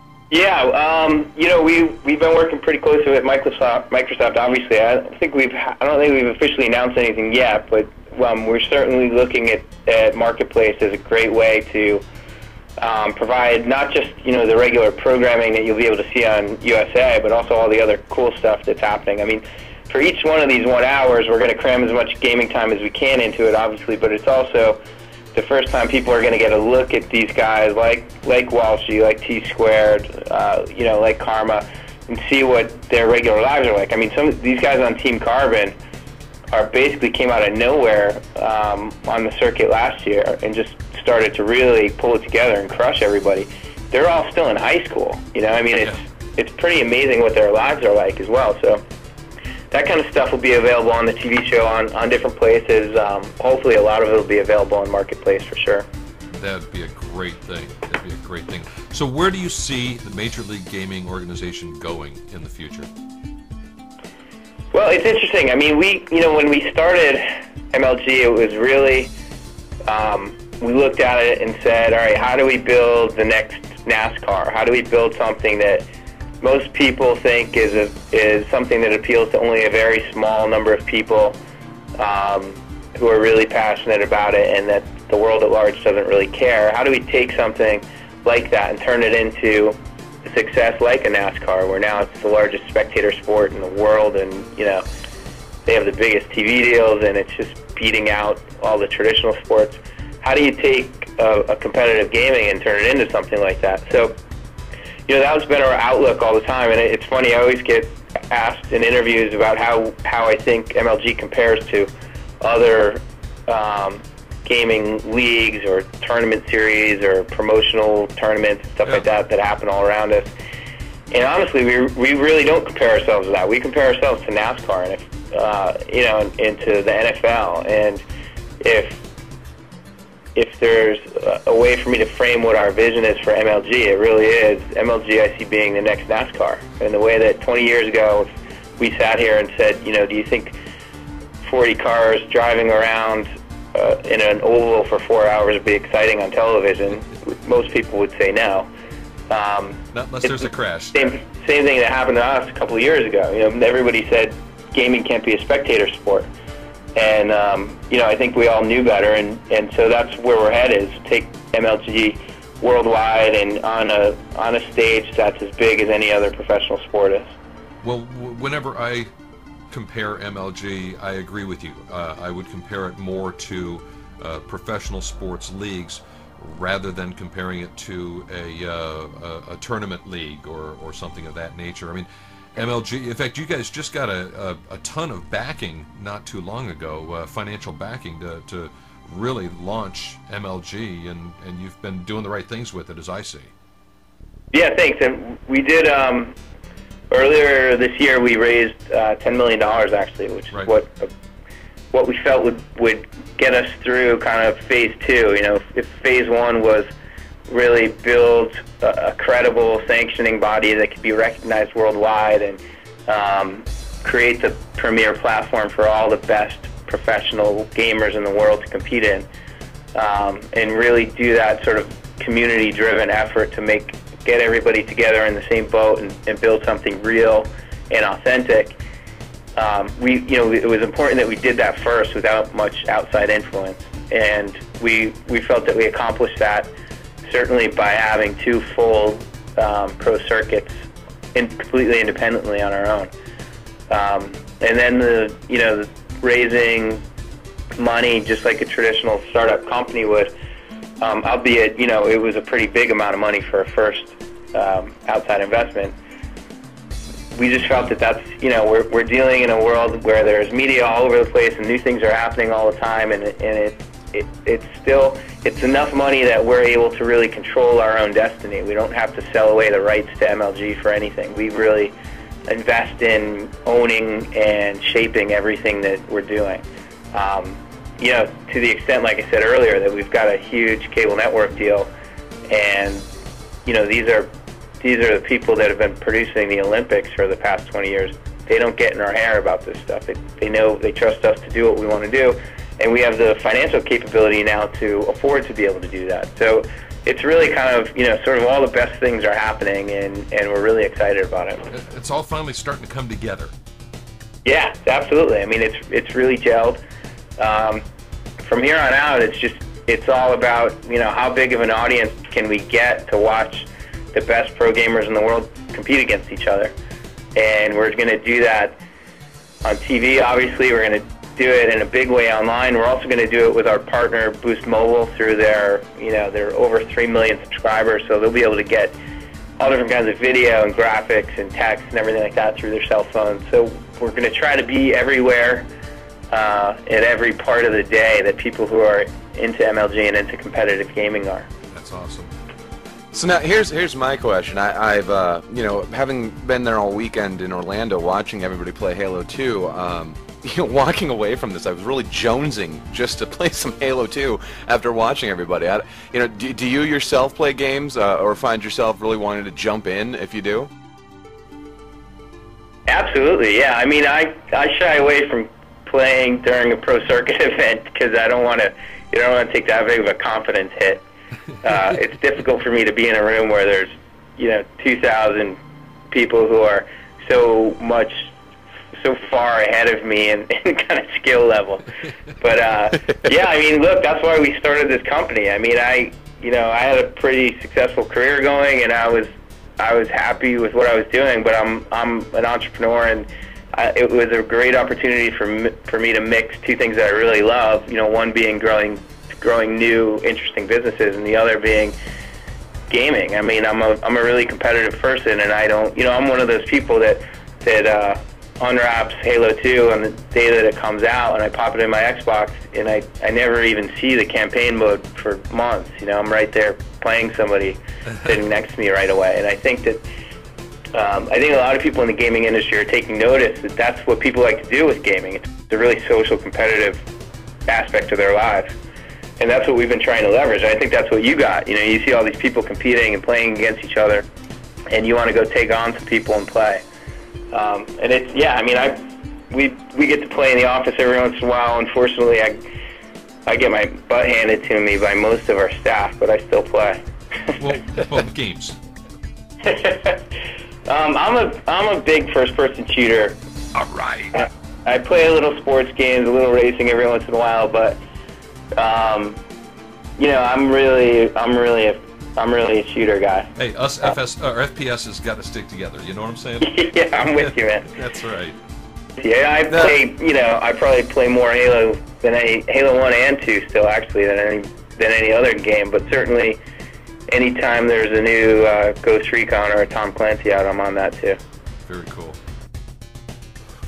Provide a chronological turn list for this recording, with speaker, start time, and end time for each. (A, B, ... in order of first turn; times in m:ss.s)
0:00.3-0:12.0 A
0:12.8-0:24.8 A
0:25.3-0:35.7 A
0:36.5-0:48.8 A
0:49.7-0:55.8 A
0:56.3-1:02.9 B
1:04.7-1:09.1 A
1:09.8-1:15.9 A
1:16.4-1:21.4 A
1:22.0-1:34.8 A
1:35.6-1:44.2 A
1:45.1-2:00.3 A
2:01.1-2:08.0 A
2:08.6-2:09.0 A
2:10.3-2:20.6 A
2:21.4-2:28.7 A
2:29.3-2:36.3 A
2:29.9-2:31.0 B
2:37.0-2:47.3 A
2:47.8-2:49.1 B
2:49.7-3:13.5 B
3:14.5-3:16.3 A
3:17.1-3:21.1 A
3:21.9-3:26.9 A
3:27.5-3:39.3 A
3:39.9-3:48.8 A
3:49.6-3:56.7 A
3:57.2-4:00.7 A
4:01.3-4:03.1 A
4:03.9-4:07.0 A
4:07.8-4:10.3 A
4:11.0-4:15.9 A
4:17.3-4:31.9 A
4:32.5-4:41.9 A
4:42.5-4:43.0 A
4:43.6-4:44.3 A
4:44.8-5:01.6 A
5:01.7-5:03.5 B
5:04.4-5:06.8 A
5:07.4-5:07.8 A
5:08.4-5:16.7 A
5:17.4-5:18.8 A
5:19.6-5:29.0 A
5:29.6-5:35.7 A
5:36.3-5:41.5 A
5:41.7-5:42.3 B
5:43.1-6:00.7 C
6:02.9-6:11.0 A
6:11.6-6:15.6 A
6:16.1-6:18.3 A
6:19.0-6:42.0 A
6:42.9-7:00.0 A
7:00.9-7:07.0 A
7:07.7-7:08.7 A
7:09.4-7:14.3 A
7:14.9-7:16.8 A
7:17.5-7:22.6 A
7:23.4-7:27.0 A
7:27.6-7:28.8 B
7:29.6-7:30.2 A
7:30.9-7:33.4 A
7:33.8-7:34.3 B
7:34.3-7:38.0 A
7:38.7-7:39.4 A
7:40.2-7:43.5 A
7:43.6-7:48.6 B
7:46.6-7:47.9 A
7:49.2-7:56.6 A
7:57.3-8:01.4 A
8:01.9-8:02.4 B